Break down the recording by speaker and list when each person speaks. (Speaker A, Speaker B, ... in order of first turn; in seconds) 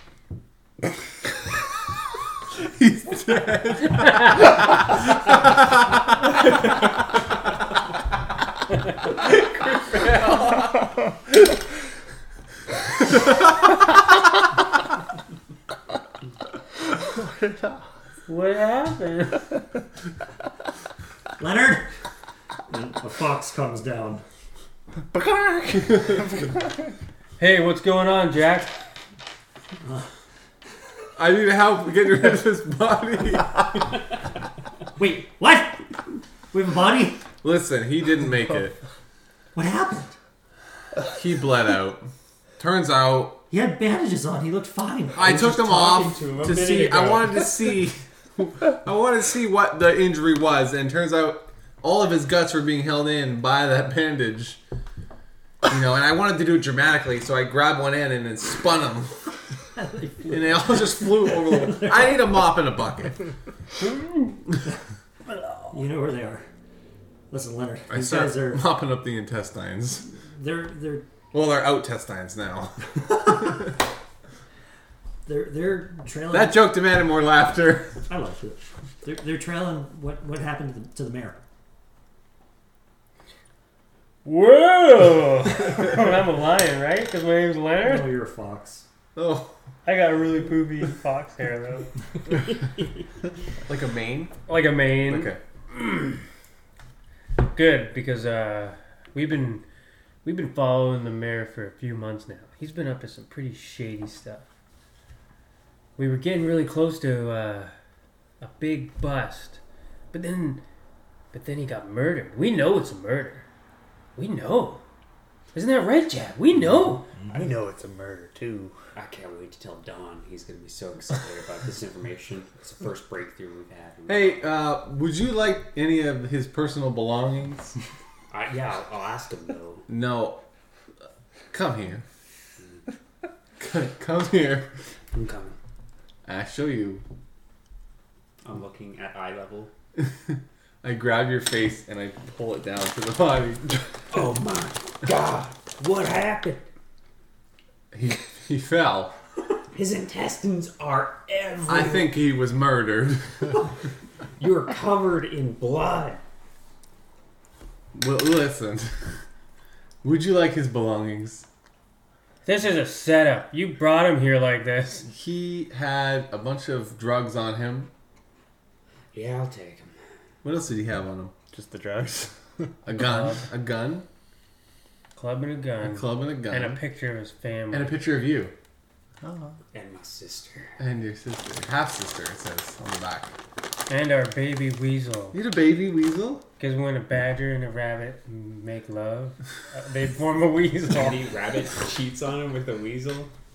Speaker A: 2.6-6.0, 9.2-10.8, 31.2-33.9, 37.4-38.8, 41.1-42.1, 42.6-43.4, 45.1-54.6, 55.7-59.4, 60.2-63.2, 67.9-70.1, 71.3-73.7, 76.3-78.0, 89.2-89.5, 93.7-94.3, 95.1-95.4, 124.1-127.7, 129.9-130.4, 131.5-132.0, 133.6-134.7, 136.3-137.0, 140.0-144.0, 147.9-149.2, 151.7-153.7, 157.9-159.2, 160.0-161.5, 165.0-167.9, 170.4-171.3, 172.8-174.1, 175.8-176.8, 177.7-178.5, 180.8-183.3, 185.3-186.4
Speaker B: 17.1-17.8, 25.1-26.6, 117.3-118.8, 171.5-172.7, 179.2-179.6
Speaker C: 18.3-19.5, 27.4-28.8, 84.2-88.2, 89.8-91.9, 94.5-95.3, 97.5-99.6, 100.2-104.5, 106.0-107.7, 108.4-109.6, 110.1-110.6, 111.3-113.5, 114.2-114.8, 115.5-117.1, 162.4-165.1, 172.9-173.5, 175.2-178.0, 183.9-185.4, 186.6-191.2
Speaker D: 21.4-22.0, 22.7-24.2, 29.8-30.1, 35.0-35.9, 36.5-37.3, 39.5-40.2, 43.5-46.0, 59.8-60.4, 61.0-62.1, 65.7-66.5, 67.3-68.6, 70.1-71.1, 75.2-76.7, 78.1-81.4, 87.8-88.8
Speaker E: 45.5-47.5, 119.0-124.4, 128.3-129.9, 135.1-135.6, 138.4-139.7, 144.1-146.6, 149.7-152.1, 154.4-156.2, 169.1-169.9, 179.7-180.8, 190.9-193.3